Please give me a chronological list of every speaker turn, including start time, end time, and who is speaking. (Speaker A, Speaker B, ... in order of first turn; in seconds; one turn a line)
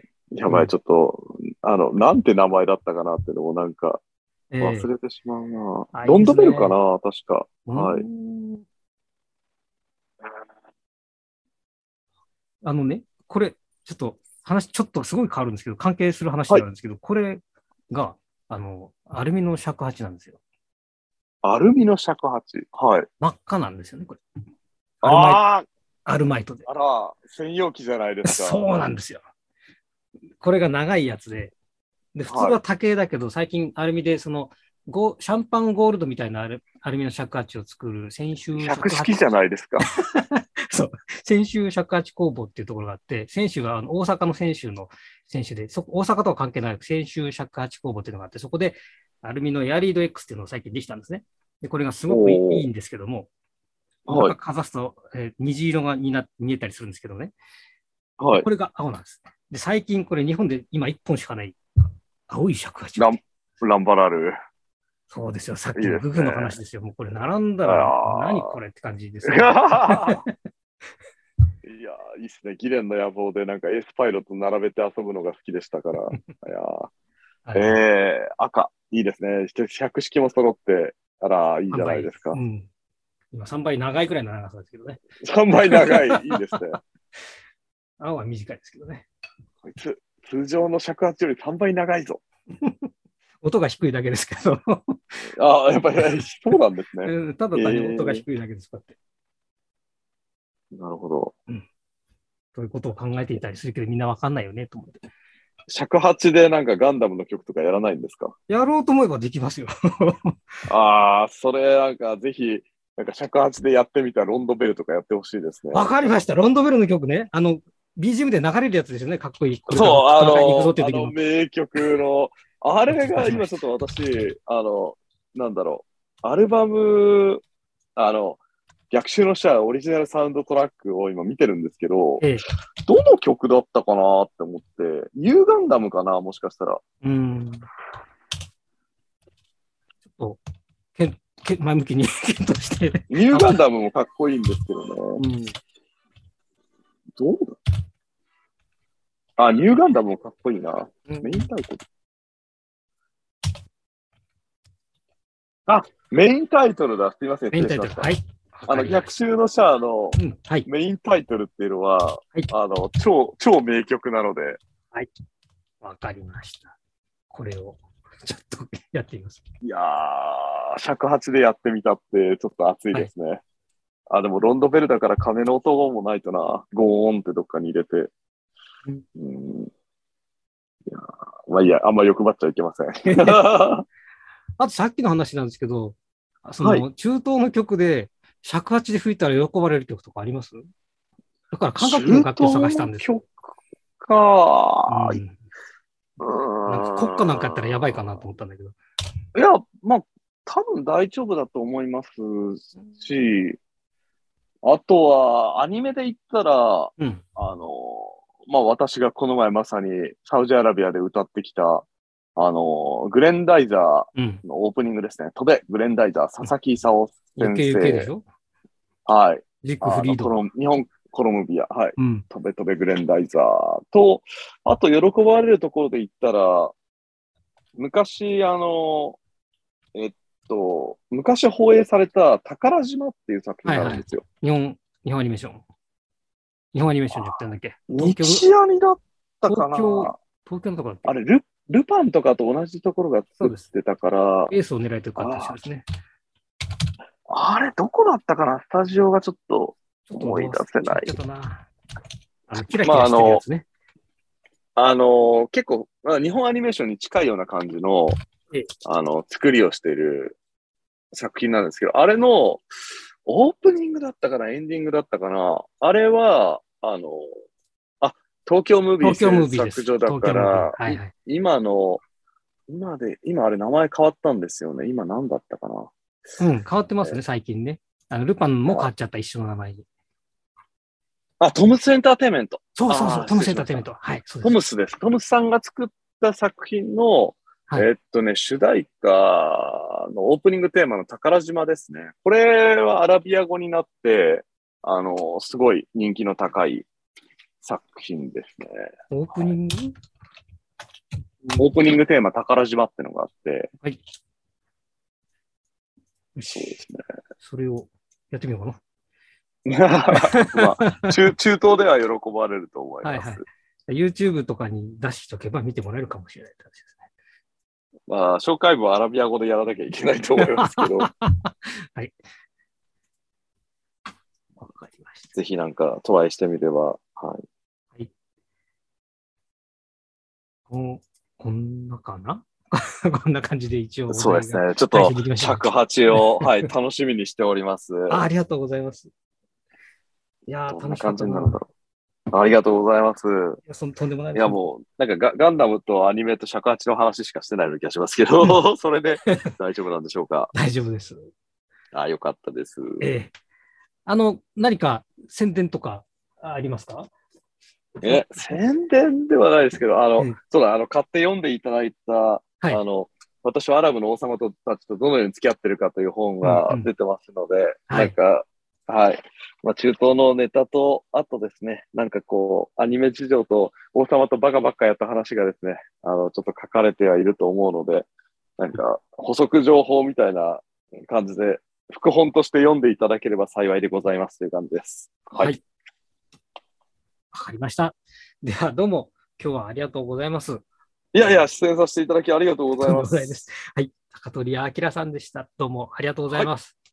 Speaker A: 0.3-4.0
Speaker B: 0.5-0.7
Speaker B: 4.5-4.9
Speaker A: 4.6-8.1
Speaker B: 5.9-6.8
Speaker B: 7.7-8.6
Speaker B: 12.6-20.4
Speaker A: 21.4-23.1
Speaker B: 23.2-24.2
Speaker B: 25.0-25.4
Speaker A: 25.0-25.7
Speaker B: 26.1-26.7
Speaker A: 26.7-28.7
Speaker B: 28.2-29.2
Speaker B: 30.4-31.5
Speaker B: 32.1-39.2
Speaker A: 32.3-32.6
Speaker A: 38.5-39.9
Speaker B: 39.8-53.3
Speaker A: 52.1-52.7
Speaker A: 54.1-54.4
Speaker B: 54.1-57.3
Speaker A: 58.2-58.5
Speaker B: 58.3-61.6
Speaker B: 62.3-63.2
Speaker A: 63.0-64.3
Speaker B: 65.1-70.3
Speaker A: 65.8-66.6
Speaker A: 67.7-68.6
Speaker A: 69.2-70.2
Speaker A: 71.7-76.9
Speaker B: 77.5-77.8
Speaker A: 77.5-82.4
Speaker B: 81.7-82.7
Speaker B: 83.3-85.0
Speaker A: 85.2-86.8
Speaker B: 85.7-86.8
Speaker B: 88.0-89.1
Speaker A: 89.6-92.2
Speaker B: 92.6-92.9
Speaker B: 93.4-95.2
Speaker A: 95.3-98.2
Speaker B: 97.1-99.0
Speaker A: 100.7-101.3
Speaker B: 102.5-105.0
Speaker A: 105.7-108.3
Speaker B: 108.5-110.4
Speaker A: 110.7-116.0
Speaker B: 115.7-121.2
Speaker A: 119.7-127.4
Speaker B: 122.9-123.5
Speaker A: 128.0-128.4
Speaker A: 128.9-132.2
Speaker B: 132.2-132.5
Speaker A: 132.9-136.8
Speaker B: 137.0-137.7
Speaker B: 140.1-140.4
Speaker B: 140.9-143.6
Speaker A: 143.1-145.2
Speaker B: 145.2-145.6
Speaker A: 147.2-147.6
Speaker A: 149.4-151.8
Speaker B: 151.1-151.5
Speaker A: 155.7-158.1
Speaker B: 157.5-159.1
Speaker A: 158.7-164.6
Speaker B: 160.2-160.7
Speaker B: 165.8-166.8
Speaker B: 167.3-169.4
Speaker A: 169.6-173.4
Speaker A: 174.1-178.1
Speaker A: 179.2-179.7
Speaker A: 180.9-183.8
Speaker B: 183.1-183.5
Speaker B: 184.6-190.6
Speaker B: 191.5-193.1
Speaker A: 191.8-195.2
Speaker B: 194.9-195.4
Speaker A: 196.2-198.2
Speaker B: 196.7-198.8
Speaker A: 199.3-203.6
Speaker A: 204.6-211.8
Speaker A: 212.4-218.1
Speaker B: 214.2-214.4
Speaker B: 217.4-218.2
Speaker A: 219.1-226.7
Speaker B: 219.6-220.4
Speaker B: 222.0-222.3
Speaker A: 227.8-229.2
Speaker A: 229.9-234.2
Speaker B: 233.7-235.7
Speaker B: 236.7-238.5
Speaker A: 237.1-240.1
Speaker B: 239.5-241.2
Speaker A: 241.1-244.5
Speaker B: 243.4-243.7
Speaker B: 244.5-245.8
Speaker A: 245.2-245.6
Speaker A: 247.3-251.2
Speaker B: 250.1-251.7
Speaker B: 252.5-253.7
Speaker A: 252.8-253.4
Speaker A: 254.8-258.2
Speaker A: 258.9-260.4
Speaker A: 261.1-262.7
Speaker A: 263.2-267.4
Speaker A: 268.0-272.0
Speaker B: 269.0-271.1
Speaker A: 272.7-275.9
Speaker B: 276.4-279.9
Speaker A: 281.4-283.9
Speaker B: 282.8-284.6
Speaker A: 284.4-296.9
Speaker A: 297.6-299.6
Speaker B: 299.1-299.9
Speaker A: 301.6-303.7
Speaker B: 306.4-306.8
Speaker A: 306.5-307.0
Speaker B: 307.4-308.8
Speaker A: 309.6-313.4
Speaker B: 310.1-311.3
Speaker B: 313.0-317.1
Speaker A: 318.1-321.1
Speaker B: 320.4-322.1
Speaker B: 324.6-325.4
Speaker A: 325.4-327.4
Speaker B: 330.7-336.7
Speaker A: 334.1-338.2
Speaker B: 338.1-339.1
Speaker B: 340.5-341.6
Speaker A: 340.7-341.7
Speaker A: 342.3-343.6
Speaker B: 343.6-344.6
Speaker A: 344.3-350.5
Speaker B: 349.2-349.6
Speaker B: 350.5-351.3
Speaker A: 351.9-353.1
Speaker B: 353.0-353.3
Speaker B: 354.1-357.1
Speaker B: 358.0-358.6
Speaker A: 358.0-378.1
Speaker B: 366.4-366.9
Speaker B: 367.9-368.1
Speaker A: 378.6-385.5
Speaker B: 387.3-390.6
Speaker A: 391.1-393.4
Speaker B: 391.2-391.4
Speaker B: 392.8-396.8